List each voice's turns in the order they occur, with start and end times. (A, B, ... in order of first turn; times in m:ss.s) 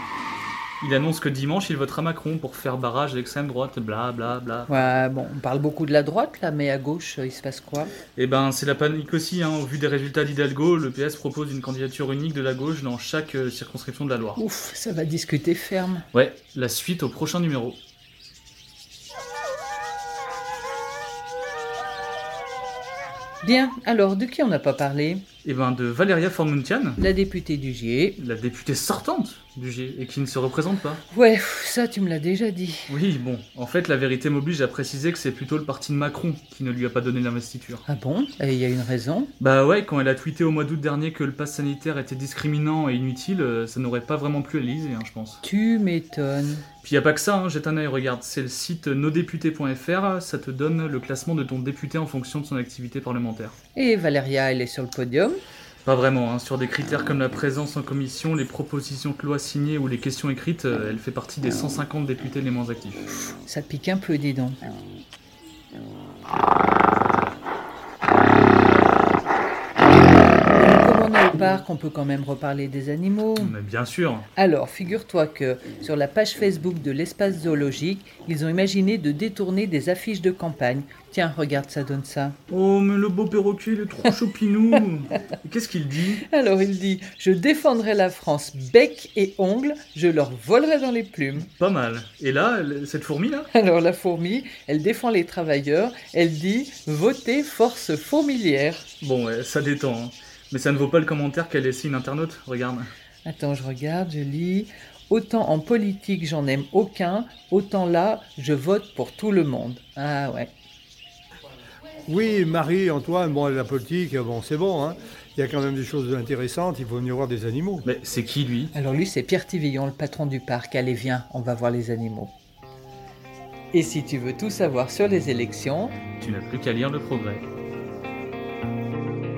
0:00.8-0:04.8 A
0:04.7-0:07.9 B
0:08.2-0:14.4 A
0:14.4-0:16.1 B
0:16.1-0:17.8 A
0:23.4-0:25.2 B
0:25.4-0:27.0 A
0:27.0-0:28.2 B
0:28.2-0:31.0 A
0:31.1-0:32.9 B
0:32.9-0:37.8 A
0:37.9-0:39.3 B
0:39.4-0:45.4 A
0:45.4-0:46.6 B
0:46.8-0:53.6 A
0:53.8-0:55.4 B
0:55.8-1:03.0 A
1:03.4-1:04.6 B
1:10.5-1:13.6 B
1:13.4-1:14.3 A
1:14.4-1:22.4 B
1:22.5-1:26.2 A
1:26.3-1:31.5 B
1:31.4-1:33.5 A
1:33.5-1:38.9 B
1:39.0-1:42.9 A
1:43.2-1:50.5 B
1:52.1-1:57.8 C
1:57.8-1:58.7 A
1:58.7-2:02.3 B
2:03.7-2:06.0 B
2:06.2-2:07.5 A